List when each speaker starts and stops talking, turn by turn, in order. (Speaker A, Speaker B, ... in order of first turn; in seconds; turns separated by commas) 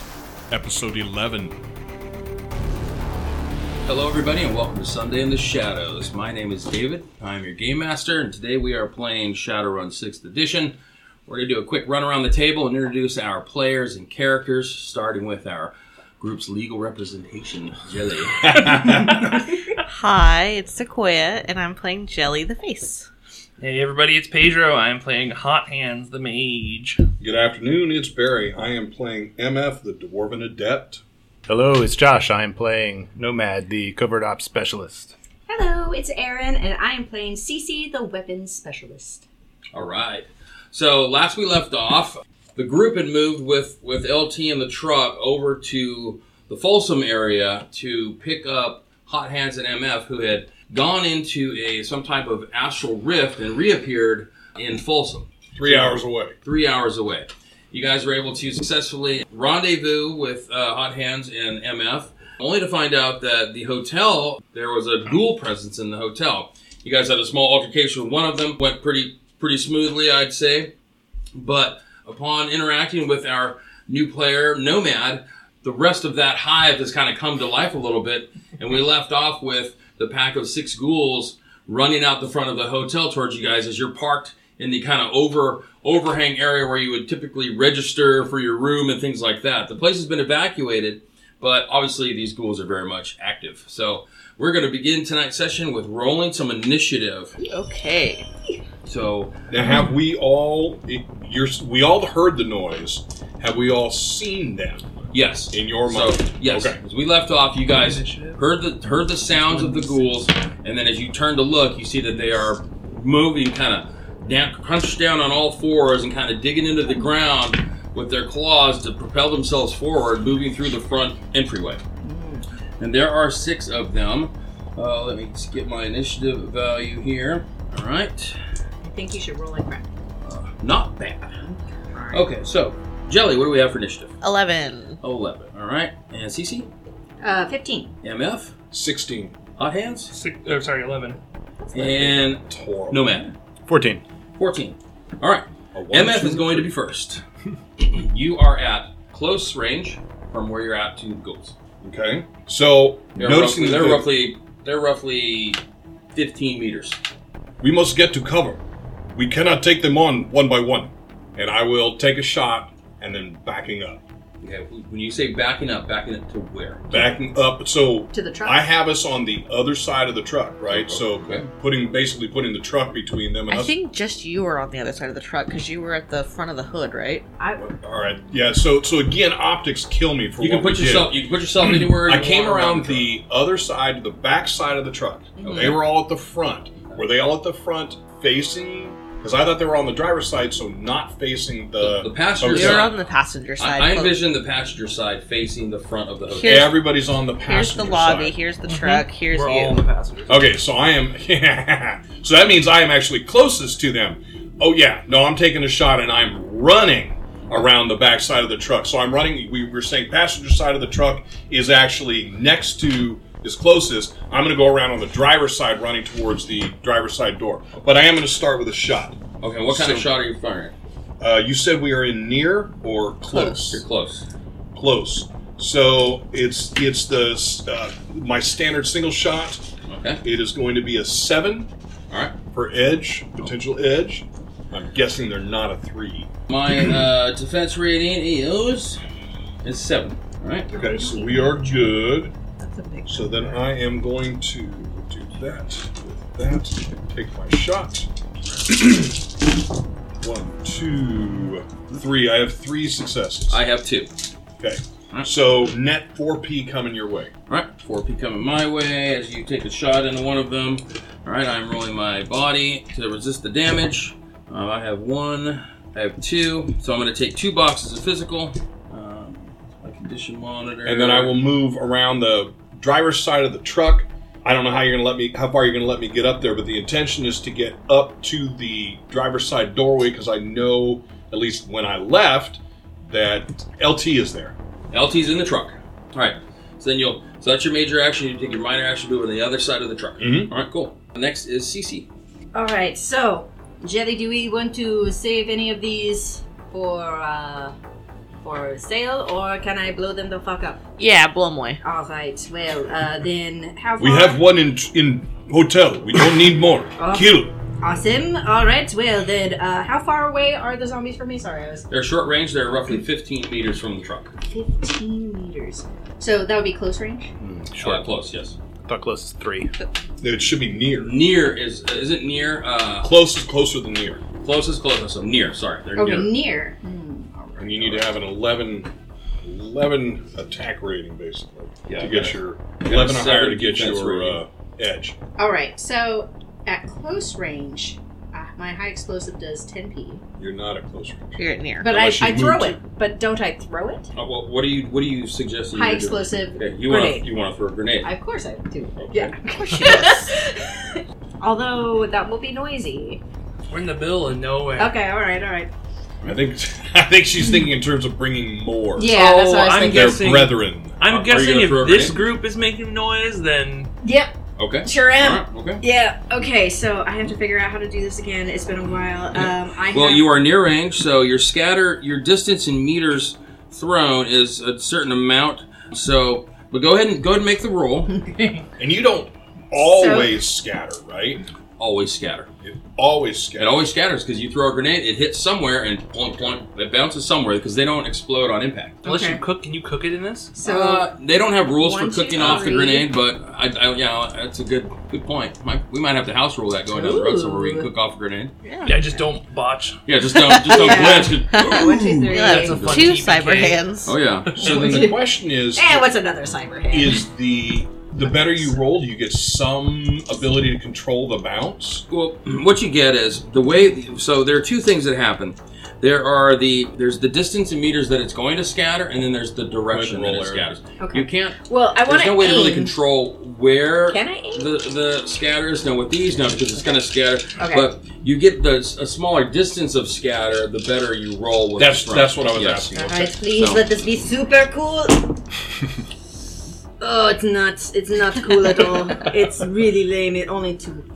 Speaker A: 0.5-1.6, Speaker B: 3.8-10.7, Speaker B: 11.3-18.7, Speaker A: 18.4-19.3, Speaker C: 18.8-19.4, Speaker D: 19.8-23.1, Speaker C: 23.6-27.0, Speaker A: 27.2-31.0, Speaker E: 31.5-35.1, Speaker F: 35.5-39.2, Speaker B: 39.7-70.7, Speaker A: 55.5-56.3, Speaker B: 71.3-97.3, Speaker D: 97.4-98.2, Speaker B: 98.8-99.3, Speaker A: 99.5-106.8, Speaker B: 105.1-121.8, Speaker C: 107.7-108.4, Speaker C: 109.3-110.1, Speaker F: 122.0-122.4, Speaker B: 122.8-128.3, Speaker F: 128.8-129.9, Speaker B: 130.2-131.4, Speaker F: 131.4-132.2, Speaker B: 132.1-134.1, Speaker D: 134.2-135.0, Speaker B: 135.0-136.7, Speaker F: 137.2-137.9, Speaker B: 138.0-138.5, Speaker A: 138.7-139.3, Speaker B: 139.6-140.1, Speaker C: 140.1-141.2, Speaker B: 141.7-143.3, Speaker A: 142.3-143.2, Speaker E: 143.7-144.0, Speaker B: 144.4-147.2, Speaker A: 145.7-146.7, Speaker B: 147.8-151.5, Speaker A: 151.8-154.1, Speaker B: 153.2-155.6, Speaker B: 156.1-157.0, Speaker A: 157.6-158.6, Speaker A: 159.1-164.0, Speaker B: 164.4-166.9, Speaker A: 166.9-173.8, Speaker F: 168.1-168.6, Speaker B: 170.7-171.5, Speaker D: 173.5-177.2, Speaker F: 177.4-177.7, Speaker A: 177.5-181.1, Speaker B: 180.4-183.1, Speaker A: 181.7-192.9, Speaker B: 185.4-185.8, Speaker D: 185.4-185.7, Speaker B: 191.8-196.7, Speaker D: 192.4-194.2, Speaker D: 196.4-196.7, Speaker A: 196.4-198.3, Speaker D: 197.4-199.8, Speaker C: 198.7-200.4, Speaker A: 200.3-220.1, Speaker B: 219.4-220.7, Speaker A: 221.2-223.8, Speaker B: 223.4-224.2, Speaker A: 224.7-229.7, Speaker B: 229.9-230.2, Speaker A: 230.2-231.7, Speaker B: 232.1-232.3, Speaker A: 232.5-236.3, Speaker B: 236.5-239.0, Speaker B: 239.6-240.7, Speaker A: 240.7-242.3, Speaker F: 240.7-241.7, Speaker F: 242.6-243.6, Speaker A: 243.1-248.1, Speaker A: 248.6-249.3, Speaker A: 250.2-253.6, Speaker B: 253.5-254.1, Speaker A: 254.6-257.3, Speaker B: 257.5-271.4, Speaker A: 270.8-284.5, Speaker B: 284.9-292.1, Speaker A: 290.2-290.5, Speaker F: 292.5-297.7, Speaker F: 298.4-300.8, Speaker D: 301.0-301.8, Speaker F: 301.8-304.4, Speaker A: 304.0-307.5, Speaker F: 307.0-311.8, Speaker B: 311.9-314.3, Speaker F: 314.5-317.3, Speaker E: 317.4-318.0, Speaker B: 317.8-318.6, Speaker E: 318.8-319.7, Speaker A: 320.2-321.1, Speaker B: 321.0-323.1, Speaker A: 323.0-324.2, Speaker B: 324.4-326.3, Speaker F: 325.9-328.0, Speaker A: 327.6-328.9, Speaker A: 329.4-335.2, Speaker B: 331.9-334.4, Speaker F: 335.4-340.2, Speaker A: 340.4-342.8, Speaker D: 341.4-341.9, Speaker F: 341.8-344.1, Speaker B: 344.1-348.1, Speaker F: 345.7-347.2, Speaker F: 348.0-353.2, Speaker B: 349.0-349.3, Speaker C: 353.7-354.9, Speaker F: 354.8-355.7, Speaker A: 356.2-359.1, Speaker F: 359.0-360.3, Speaker C: 359.1-363.9, Speaker A: 359.8-361.0, Speaker B: 361.1-362.2, Speaker F: 364.0-364.3, Speaker B: 364.6-365.8, Speaker F: 364.8-370.2, Speaker B: 369.4-378.2, Speaker A: 378.8-381.4, Speaker F: 379.7-380.4, Speaker B: 381.8-382.5, Speaker A: 382.6-383.9, Speaker B: 383.6-389.0, Speaker C: 389.0-390.5, Speaker F: 389.0-389.4, Speaker F: 390.6-391.1, Speaker B: 390.6-398.5, Speaker F: 391.8-393.1, Speaker F: 396.9-397.9, Speaker D: 398.6-399.1, Speaker C: 398.8-400.0, Speaker B: 400.1-403.1, Speaker D: 400.3-404.2, Speaker F: 400.6-402.8, Speaker C: 402.4-403.9, Speaker B: 404.0-405.1, Speaker C: 404.4-405.0, Speaker F: 404.6-407.3, Speaker A: 404.6-406.1, Speaker A: 406.9-412.0, Speaker B: 412.1-433.8, Speaker A: 419.9-420.7, Speaker F: 421.0-422.9, Speaker F: 424.1-424.7, Speaker F: 427.6-427.9, Speaker A: 431.8-433.3, Speaker F: 432.9-435.4, Speaker F: 437.0-441.0